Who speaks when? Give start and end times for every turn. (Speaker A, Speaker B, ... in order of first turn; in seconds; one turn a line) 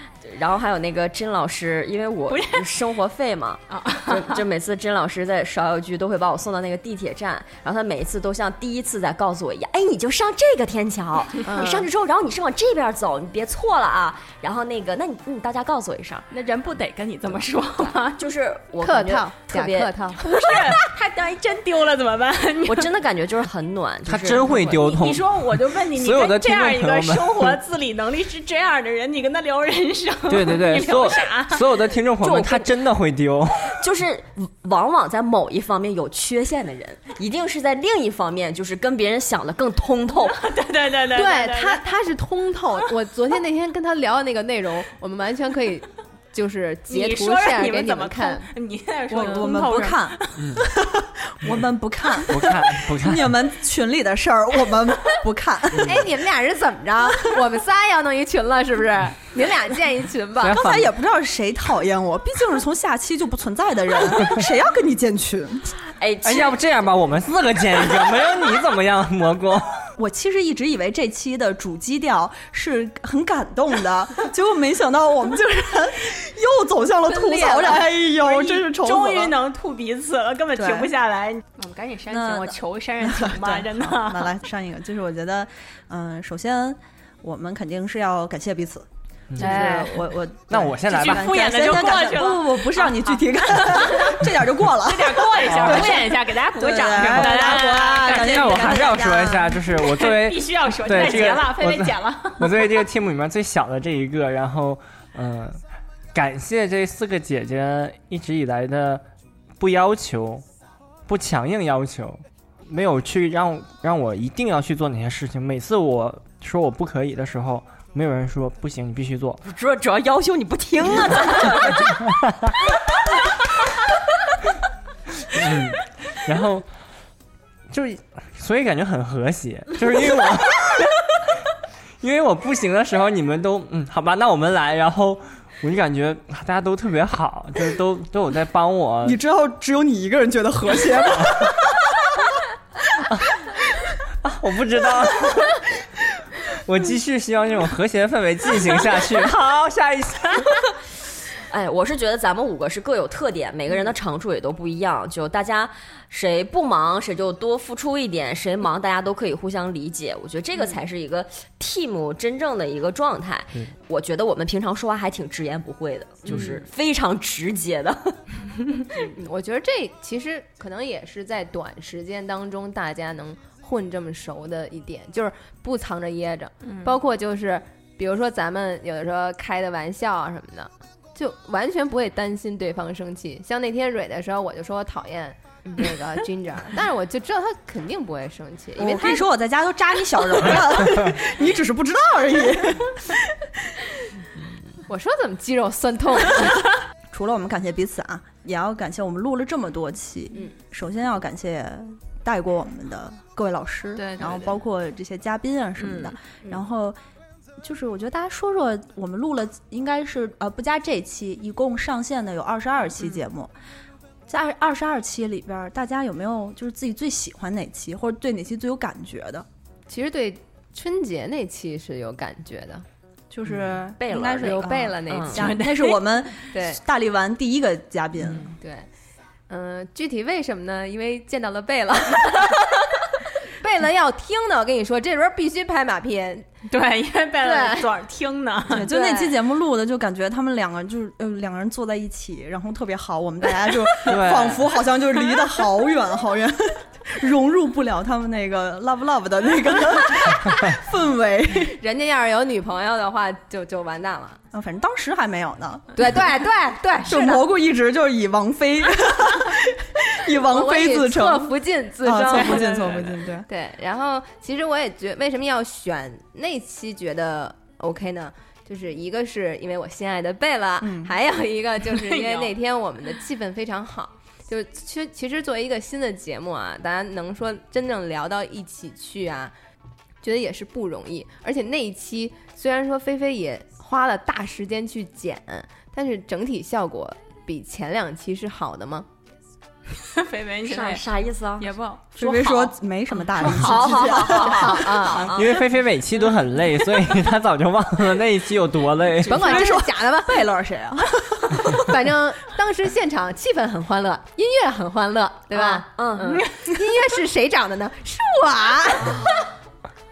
Speaker A: 0.2-16.2
Speaker B: 2.3-2.7
Speaker B: 3.7-4.4
Speaker C: 11.4-11.9
Speaker B: 16.3-18.2
Speaker A: 18.2-19.9
Speaker C: 18.8-20.2
Speaker B: 20.2-22.9
Speaker A: 22.6-25.1
Speaker D: 24.1-27.6
Speaker B: 25.0-31.6
Speaker D: 30.3-33.8
Speaker A: 32.2-32.7
Speaker A: 33.8-40.4
Speaker B: 40.3-41.8
Speaker C: 41.1-48.4
Speaker B: 46.9-50.3
Speaker E: 49.1-56.0
Speaker C: 49.2-49.6
Speaker D: 50.4-50.6
Speaker D: 52.3-53.3
Speaker C: 55.8-60.6
Speaker D: 60.4-60.9
Speaker E: 60.5-65.7
Speaker A: 66.0-66.5
Speaker D: 66.2-69.8
Speaker E: 70.0-79.3
Speaker B: 77.1-84.3
Speaker E: 80.5-80.9
Speaker E: 82.1-88.8
Speaker D: 89.3-89.8
Speaker E: 89.4-99.5
Speaker B: 89.4-90.1
Speaker D: 90.5-91.9
Speaker B: 90.9-94.3
Speaker B: 94.8-102.7
Speaker D: 95.5-95.9
Speaker D: 98.1-105.6
Speaker D: 106.1-109.0
Speaker D: 109.6-110.4
Speaker D: 111.1-119.4
Speaker A: 119.4-121.9
Speaker D: 125.3-126.7
Speaker D: 127.7-130.9
Speaker D: 132.0-139.2
Speaker E: 139.0-141.8
Speaker D: 144.2-145.6
Speaker D: 146.7-150.4
Speaker B: 149.1-149.7
Speaker A: 151.5-168.2
Speaker C: 166.2-166.5
Speaker C: 169.2-189.2
Speaker B: 176.6-176.9
Speaker E: 188.8-193.3
Speaker C: 194.9-196.6
Speaker E: 197.1-207.0
Speaker B: 203.9-204.6
Speaker B: 205.8-206.2
Speaker E: 207.6-213.5
Speaker E: 214.3-219.4
Speaker C: 219.9-222.8
Speaker E: 223.3-228.6
Speaker A: 224.0-225.5
Speaker C: 224.1-225.6
Speaker B: 225.3-226.0
Speaker C: 226.5-226.8
Speaker C: 228.6-228.9
Speaker C: 229.5-232.7
Speaker C: 233.6-236.5
Speaker B: 236.7-238.9
Speaker C: 237.4-237.9
Speaker E: 238.7-251.7
Speaker C: 238.8-239.3
Speaker D: 244.1-244.6
Speaker C: 251.7-254.4
Speaker E: 254.5-256.3
Speaker C: 255.9-257.5
Speaker E: 257.0-263.5
Speaker C: 260.5-279.5
Speaker B: 262.2-263.2
Speaker E: 270.8-271.1
Speaker B: 271.9-272.5
Speaker C: 280.2-289.1
Speaker B: 290.1-291.0
Speaker A: 290.6-291.7
Speaker B: 291.6-292.8
Speaker E: 292.1-294.8
Speaker B: 293.3-295.3
Speaker A: 293.4-295.5
Speaker C: 293.4-295.3
Speaker D: 295.3-299.6
Speaker C: 299.2-300.4
Speaker E: 299.3-301.9
Speaker C: 301.7-309.2
Speaker A: 305.5-306.4
Speaker A: 308.9-309.5